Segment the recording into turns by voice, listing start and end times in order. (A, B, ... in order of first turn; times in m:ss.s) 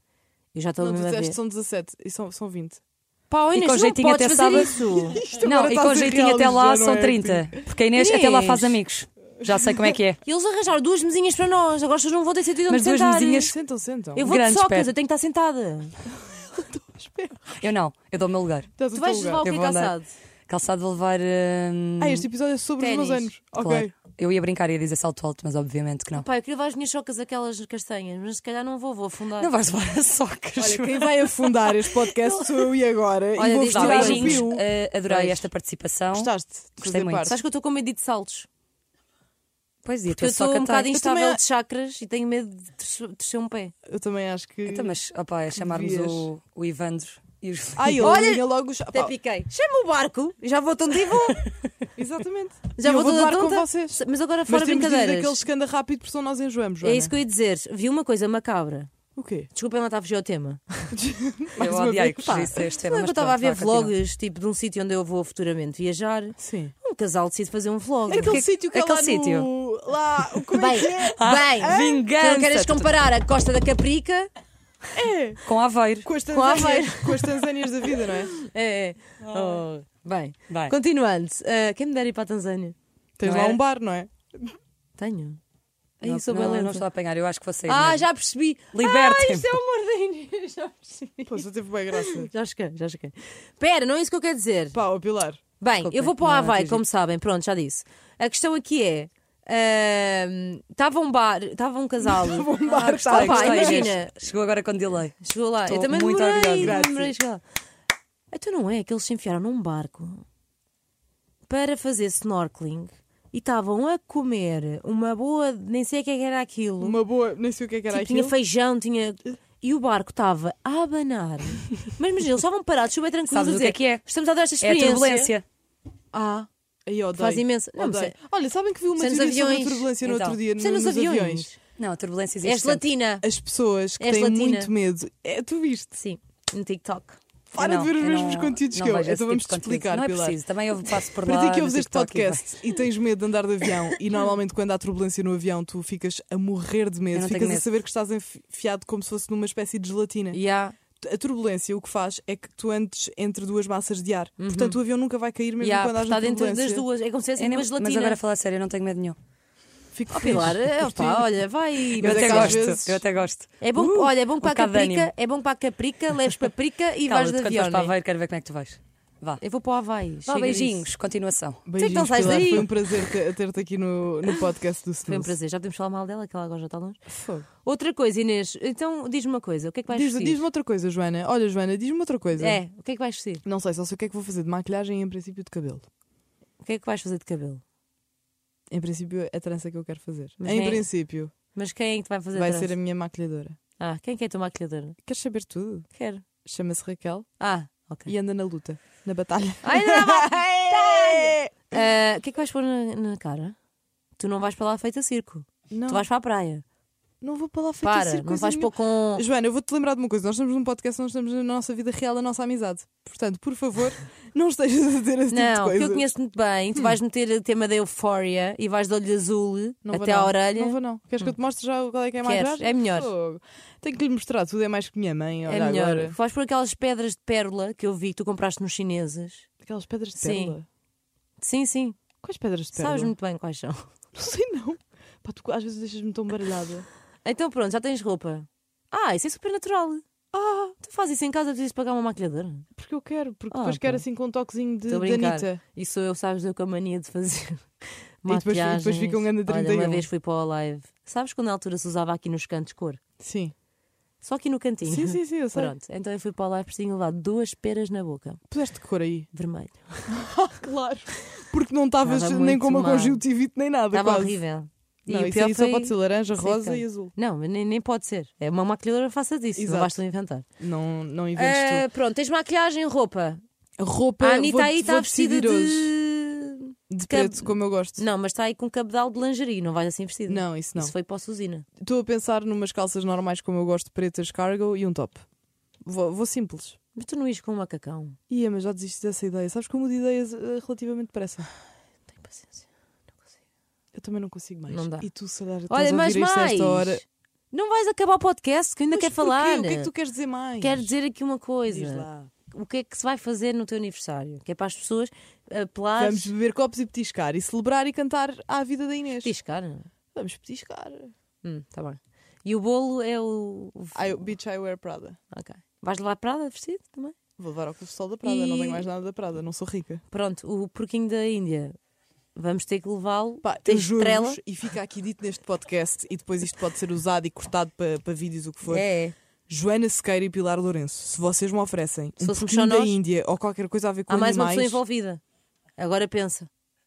0:00.5-0:01.4 A
0:00.8-0:02.8 B
0:03.3-0:05.2 A
0:03.5-0:10.2 C
0:04.8-0:07.6 B
0:07.9-0:08.8 A
0:09.4-0:10.0 B
0:10.2-0:13.5 A
0:12.7-0:13.6 C
0:13.4-0:14.2 B
0:14.2-0:15.9 A
0:14.2-0:14.9 C
0:16.1-0:17.7 B
0:17.6-0:18.8 C
0:18.8-0:19.4 B
0:18.9-0:20.1 A
0:19.4-0:20.0 C
0:20.5-0:22.3 C
0:22.0-0:23.9 B
0:22.8-0:23.3 A
0:23.6-0:26.3 C
0:26.1-0:29.5 A
0:29.4-0:32.6 C
0:30.6-0:35.3 B
0:33.4-0:34.5 A
0:33.7-0:37.4 C
0:36.1-0:37.4 B
0:37.2-0:38.5 A
0:39.8-0:40.9 C
0:40.1-0:43.7 A
0:40.9-0:41.4 B
0:43.9-0:45.0 B
0:44.7-0:48.1 C
0:45.6-0:46.3 B
0:47.8-0:49.1 B
0:48.0-0:51.5 A
0:52.0-0:57.2 B
0:52.8-0:55.4 A
0:56.8-0:58.9 A
0:59.2-0:59.5 B
0:59.5-1:00.9 A
1:00.9-1:02.6 B
1:01.6-1:04.0 C
1:02.2-1:08.4 A
1:06.4-1:06.7 B
1:08.1-1:12.0 B
1:08.1-1:09.5 C
1:10.5-1:14.3 A
1:10.9-1:13.0 C
1:14.9-1:15.4 B
1:15.4-1:16.1 C
1:16.0-1:18.3 B
1:16.3-1:22.8 A
1:19.3-1:19.6 C
1:20.5-1:20.8 C
1:23.2-1:24.6 B
1:23.2-1:23.6 C
1:25.0-1:25.4 A
1:26.0-1:26.9 A
1:26.0-1:28.1 C
1:27.7-1:34.8 A
1:28.7-1:29.6 C
1:31.3-1:32.3 B
1:34.7-1:35.4 B
1:35.6-1:42.5 A
1:35.8-1:36.8 C
1:42.0-1:44.0 B
1:42.6-1:46.8 C
1:43.0-1:44.2 A
1:45.2-1:47.4 A
1:46.6-1:47.2 B
1:48.3-1:50.2 A
1:51.5-1:57.0 A
1:56.8-1:58.4 B
1:57.9-2:05.3 A
2:03.3-2:04.0 C
2:04.6-2:05.4 C
2:06.1-2:06.5 A
2:06.9-2:11.5 B
2:07.2-2:08.2 A
2:09.0-2:09.9 A
2:10.0-2:10.4 C
2:10.6-2:11.6 A
2:11.8-2:12.8 C
2:12.4-2:13.2 A
2:13.2-2:16.0 B
2:14.0-2:14.7 A
2:16.0-2:17.2 A
2:17.5-2:20.4 B
2:17.6-2:22.6 C
2:21.2-2:30.4 B
2:27.1-2:27.7 C
2:30.3-2:30.8 A
2:31.0-2:36.9 B
2:34.4-2:34.8 A
2:35.6-2:38.2 A
2:37.4-2:39.2 C
2:39.9-2:41.4 B
2:40.1-2:42.7 A
2:42.0-2:43.0 B
2:42.0-2:45.1 C
2:43.6-2:47.9 A
2:47.0-2:49.4 C
2:49.4-2:50.9 A
2:50.3-2:52.5 C
2:51.7-2:55.4 B
2:51.8-2:52.9 A
2:55.1-2:57.0 A
2:57.1-2:57.5 B
2:57.6-3:00.4 A
2:59.9-3:02.6 B
3:02.4-3:03.4 A
3:03.4-3:05.9 B
3:06.6-3:07.6 A
3:08.7-3:11.3 B
3:10.4-3:10.9 A
3:11.5-3:12.7 A
3:12.3-3:13.6 B
3:13.8-3:15.0 A
3:15.0-3:15.9 B
3:15.9-3:16.2 A
3:16.4-3:17.3 B
3:17.4-3:18.1 A
3:18.1-3:21.8 B
3:19.6-3:23.6 A
3:24.2-3:26.6 A
3:25.7-3:26.1 B
3:27.2-3:36.1 B
3:27.8-3:29.2 A
3:35.3-3:40.8 A
3:39.8-3:46.2 B
3:42.2-3:43.1 A
3:45.5-3:49.5 A
3:49.6-3:50.7 B
3:50.2-3:50.6 A
3:51.4-3:52.0 A
3:52.2-3:53.1 B
3:52.7-3:53.9 A
3:54.1-3:56.9 B
3:57.2-4:00.1 A
4:00.3-4:00.8 B
4:00.8-4:02.7 A
4:02.8-4:05.6 B
4:03.5-4:04.0 A
4:04.9-4:13.0 A
4:08.3-4:10.1 B
4:13.2-4:13.5 B
4:14.2-4:18.4 A
4:14.8-4:15.7 B
4:18.5-4:19.3 B
4:19.3-4:20.2 A
4:20.1-4:24.4 B
4:22.0-4:23.2 A
4:23.9-4:30.5 A
4:25.1-4:27.1 B
4:29.6-4:30.0 B
4:30.6-4:31.9 B
4:31.4-4:33.4 A
4:33.8-4:35.9 B
4:34.2-4:41.7 A
4:36.9-4:38.0 B
4:40.3-4:40.9 B
4:41.8-4:45.2 B
4:45.8-4:46.8 B
4:47.0-4:48.2 A
4:48.3-4:51.5 B
4:52.1-4:52.7 A
4:53.9-4:57.0 B
4:54.7-4:55.1 A
4:55.7-4:59.9 A
4:58.9-5:00.9 B
5:00.6-5:06.3 A
5:01.7-5:02.3 B
5:06.0-5:09.3 B
5:09.2-5:09.9 A
5:10.1-5:11.1 B
5:11.4-5:14.2 A
5:13.9-5:15.2 B
5:15.3-5:17.2 A
5:17.4-5:20.0 B
5:18.2-5:18.9 A
5:20.1-5:21.8 A
5:22.4-5:24.4 A
5:23.4-5:28.8 B
5:28.7-5:29.2 A
5:29.5-5:34.8 B
5:32.2-5:33.0 A
5:34.1-5:35.2 A
5:35.8-5:36.5 A